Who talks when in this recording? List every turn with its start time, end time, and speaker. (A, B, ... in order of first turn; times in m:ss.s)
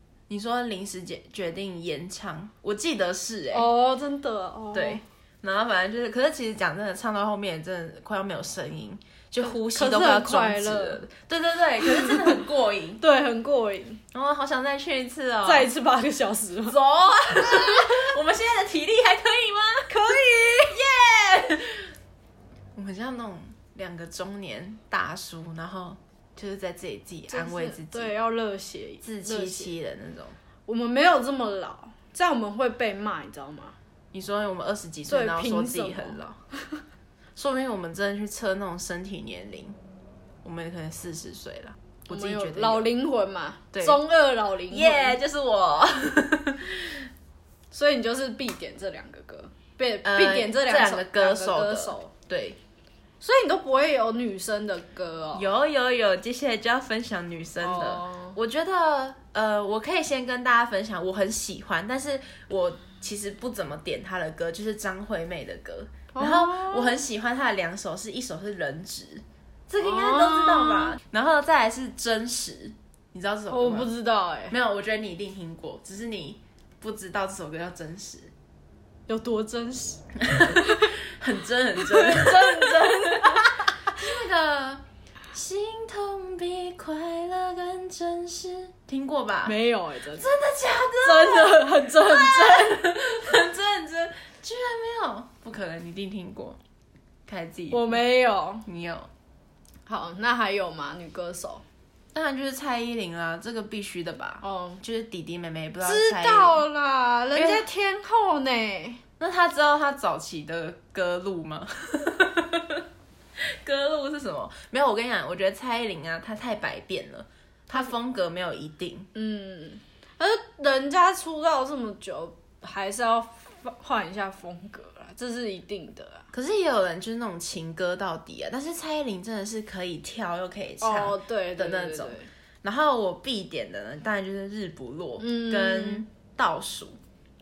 0:00.3-0:03.7 A
0:03.5-0:05.0 B
0:04.7-0:13.0 A
0:09.5-0:11.0 B
0:11.8-0:12.4 B
0:13.0-0:14.0 B
0:14.1-0:15.7 A
0:15.4-0:18.1 B
0:16.7-0:21.9 A
0:19.9-0:20.8 B
0:22.8-0:28.1 A
0:27.3-0:29.7 B
0:29.0-0:30.4 A
0:30.7-0:33.8 B
0:34.1-0:36.4 A
0:35.1-0:36.8 B
0:37.4-0:39.8 A
0:40.4-0:42.9 A
0:42.1-0:45.2 B
0:43.7-0:44.0 A
0:44.7-0:47.0 A
0:47.7-0:52.1 B
0:50.0-0:52.6 A
0:53.2-0:55.5 B
0:55.3-1:13.9 A
0:57.6-0:58.4 B
1:06.1-1:07.0 B
1:09.8-1:11.0 B
1:13.5-1:14.6 B
1:14.5-1:18.3 A
1:19.1-1:20.9 B
1:20.2-1:29.6 A
1:21.8-1:23.9 B
1:29.4-1:30.3 B
1:30.2-1:36.6 A
1:31.0-1:32.9 B
1:37.3-1:38.0 A
1:37.7-1:38.6 B
1:38.6-1:39.1 A
1:39.9-1:41.6 B
1:42.1-1:46.6 A
1:44.4-1:44.8 B
1:45.8-1:49.0 B
1:47.4-1:47.7 A
1:49.2-1:52.8 A
1:53.4-1:59.1 A
1:59.2-2:06.3 B
2:06.3-2:17.0 A
2:10.8-2:12.3 B
2:15.2-2:16.1 B